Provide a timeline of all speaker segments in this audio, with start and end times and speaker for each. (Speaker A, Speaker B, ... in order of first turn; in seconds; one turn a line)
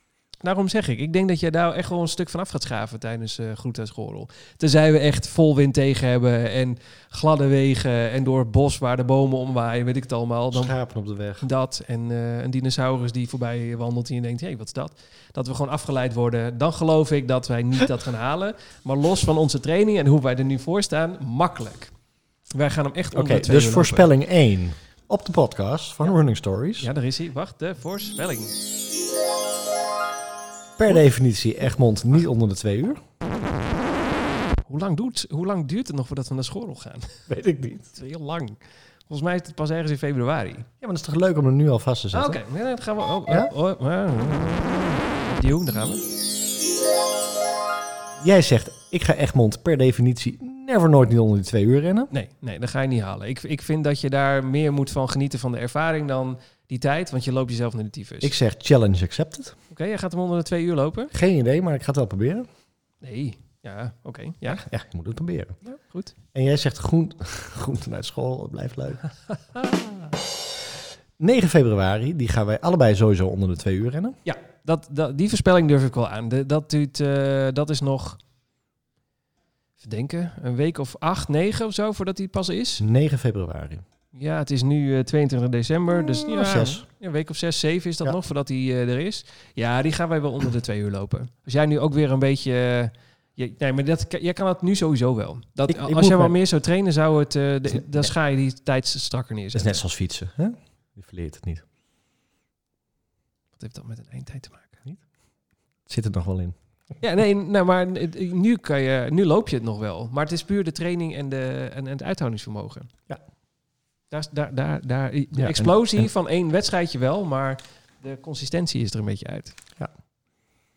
Speaker A: 0.4-10.7
Speaker B: 10.5-11.4
Speaker A: 11.4-21.9
Speaker A: 22.5-24.1
Speaker B: 23.1-26.9
Speaker A: 26.8-28.5
Speaker B: 30.8-33.0
Speaker A: 34.7-37.3
Speaker B: 37.3-37.9
Speaker A: 37.9-40.7
Speaker B: 40.8-42.4
Speaker A: 42.1-46.1
Speaker B: 48.2-52.1
Speaker A: 52.1-58.3
Speaker B: 58.2-59.5
Speaker A: 59.7-61.1
Speaker B: 61.1-62.5
Speaker A: 63.0-64.6
Speaker B: 64.5-65.6
Speaker A: 65.6-66.1
Speaker B: 66.3-69.1
Speaker B: 71.2-74.2
Speaker A: 74.2-78.2
Speaker A: 79.8-82.8
Speaker B: 82.8-83.8
Speaker A: 84.1-99.8
Speaker B: 86.2-86.8
Speaker B: 95.7-96.3
Speaker B: 97.7-98.1
Speaker B: 99.5-101.6
Speaker A: 103.6-104.8
Speaker B: 105.9-106.5
Speaker A: 107.0-112.9
Speaker A: 114.1-119.5
Speaker B: 115.3-116.1